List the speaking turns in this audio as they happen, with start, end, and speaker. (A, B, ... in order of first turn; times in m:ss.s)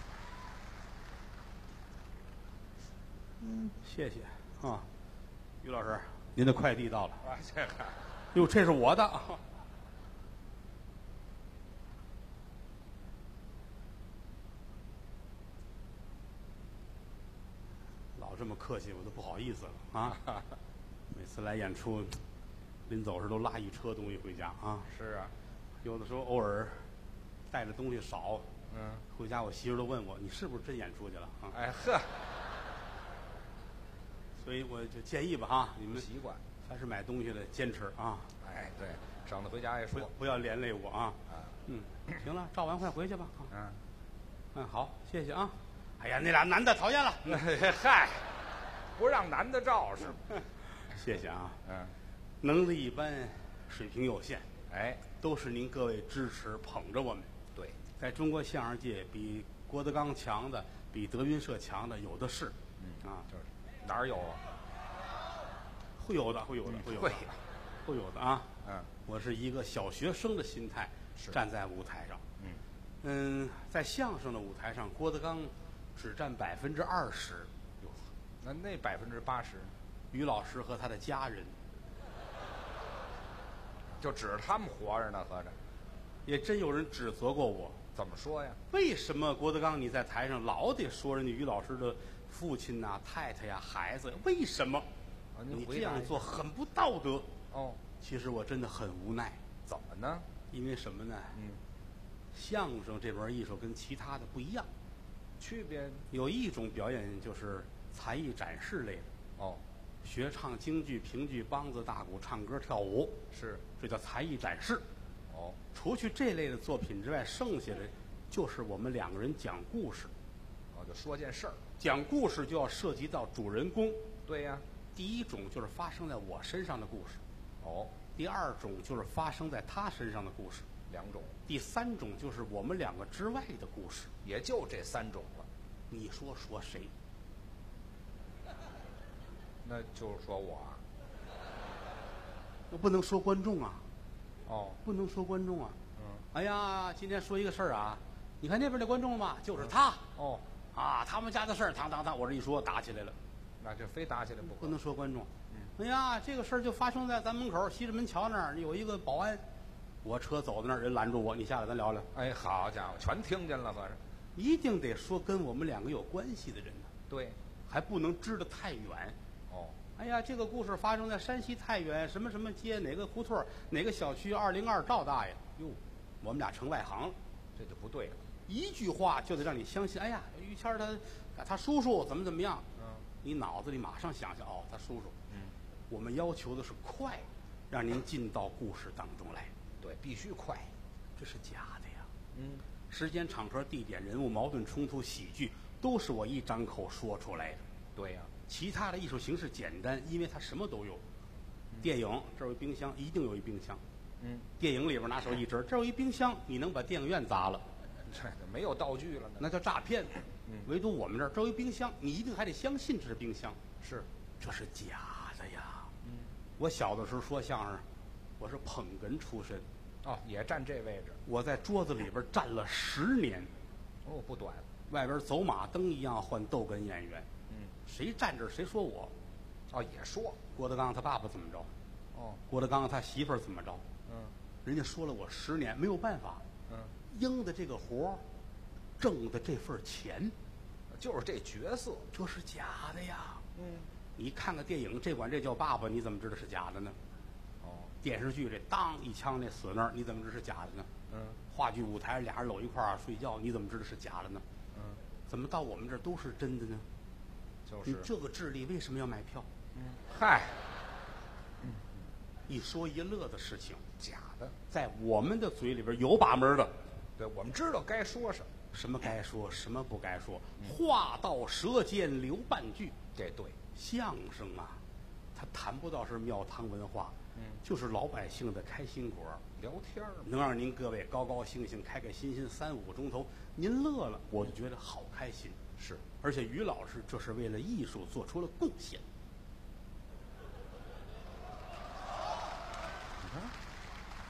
0:03.7-0:04.9 A
0:05.6-0:07.2 A
0:07.2-0:08.0 B
0:08.3-0:09.4 A
0:18.2-0:20.2 A
0:21.1-0:22.2 A
0:22.9-0:24.9 A
0:24.9-0:25.3 B
0:25.8-0:26.8 A
0:27.5-0:28.5 A
0:28.7-0:29.0 B
0:29.1-0:31.6 A
0:31.5-0:32.1 B
0:34.4-0:36.1 A
0:35.9-0:36.4 B
0:36.6-0:38.3 A
0:38.4-0:40.1 B
0:39.9-0:43.5 A
0:41.3-0:41.5 B
0:43.5-0:43.8 B
0:44.5-0:47.4 A
0:47.3-0:48.4 B
0:49.0-0:50.2 B
0:50.9-0:51.6 A
0:51.6-0:51.9 B
0:52.4-0:54.5 A
0:54.7-0:55.0 B
0:55.2-0:57.3 A
0:58.0-1:03.3 A
1:02.8-1:04.4 B
1:06.0-1:07.3 A
1:06.7-1:07.4 B
1:07.9-1:08.5 A
1:08.6-1:08.9 B
1:09.1-1:12.2 A
1:13.0-1:17.5 A
1:17.8-1:19.7 B
1:20.1-1:21.6 A
1:24.0-1:25.6 B
1:26.3-1:27.8 A
1:27.9-1:28.6 B
1:28.7-1:34.9 A
1:35.4-1:36.3 B
1:35.5-1:37.3 A
1:37.5-1:37.8 B
1:38.0-1:39.4 A
1:39.7-1:40.3 B
1:40.5-1:41.4 A
1:41.3-1:41.6 B
1:42.3-1:44.7 A
1:45.4-1:46.0 B
1:46.1-1:49.1 A
1:49.4-1:49.6 B
1:50.0-1:53.2 A
1:53.3-1:53.6 B
1:53.8-1:54.8 A
1:55.3-1:55.6 B
1:55.7-2:00.1 A
2:00.7-2:01.6 B
2:01.8-2:04.0 A
2:04.3-2:04.6 B
2:04.9-2:07.2 A
2:07.6-2:07.9 B
2:08.2-2:10.7 A
2:10.9-2:11.4 B
2:11.5-2:14.1 A
2:14.2-2:15.5 B
2:15.9-2:16.9 A
2:19.6-2:20.8 B
2:22.7-2:23.8 A
2:24.5-2:24.8 B
2:24.8-2:25.8 A
2:26.0-2:26.2 B
2:26.3-2:30.0 A
2:30.2-2:30.4 B
2:30.8-2:33.2 A
2:33.6-2:34.8 B
2:34.4-2:39.4 A
2:40.0-2:42.1 A
2:42.1-2:44.0 B
2:44.4-2:46.9 A
2:47.1-2:47.4 B
2:47.7-2:49.2 A
2:49.5-2:49.8 B
2:50.0-2:55.6 A
2:56.2-2:57.2 A
2:57.6-2:58.2 B
2:58.5-3:02.6 A
3:02.8-3:03.1 B
3:03.2-3:05.2 A
3:05.3-3:05.6 B
3:05.9-3:09.5 A
3:09.8-3:10.7 B
3:11.2-3:12.1 A
3:12.3-3:12.6 B
3:12.9-3:17.6 A
3:18.0-3:18.3 B
3:18.5-3:21.0 A
3:21.8-3:23.8 A
3:24.2-3:24.5 B
3:24.6-3:27.6 A
3:28.0-3:29.5 B
3:29.4-3:33.6 A
3:33.8-3:34.1 B
3:34.4-3:35.9 A
3:36.0-3:36.3 B
3:36.6-3:37.8 A
3:38.4-3:39.7 A
3:40.0-3:41.2 B
3:41.3-3:43.5 A
3:44.0-3:44.7 B
3:44.9-3:47.3 A
3:47.9-3:49.1 A
3:49.7-3:50.4 B
3:50.5-3:51.7 A
3:52.1-3:52.4 B
3:52.5-3:53.8 A
3:54.1-3:54.4 B
3:54.6-3:56.4 A
3:56.7-3:56.9 B
3:57.1-3:58.2 A
3:59.0-4:00.4 A
4:00.9-4:02.1 B
4:02.1-4:03.4 A
4:03.6-4:03.9 B
4:04.2-4:07.0 A
4:07.6-4:08.0 B
4:08.0-4:10.9 A
4:11.1-4:11.4 B
4:11.5-4:14.4 A
4:14.7-4:15.0 B
4:15.3-4:16.8 A
4:17.6-4:18.1 B
4:17.8-4:19.5 A
4:19.7-4:20.6 B
4:21.6-4:22.0 B
4:22.5-4:23.8 A
4:24.0-4:24.6 B
4:24.7-4:26.7 A
4:27.2-4:28.5 B
4:28.7-4:33.0 A
4:33.2-4:33.6 B
4:33.7-4:34.8 A
4:35.4-4:39.4 A
4:37.4-4:37.6 B
4:39.6-4:40.3 B
4:40.3-4:45.6 A
4:45.8-4:46.0 B
4:46.2-4:49.0 A
4:53.2-4:53.5 B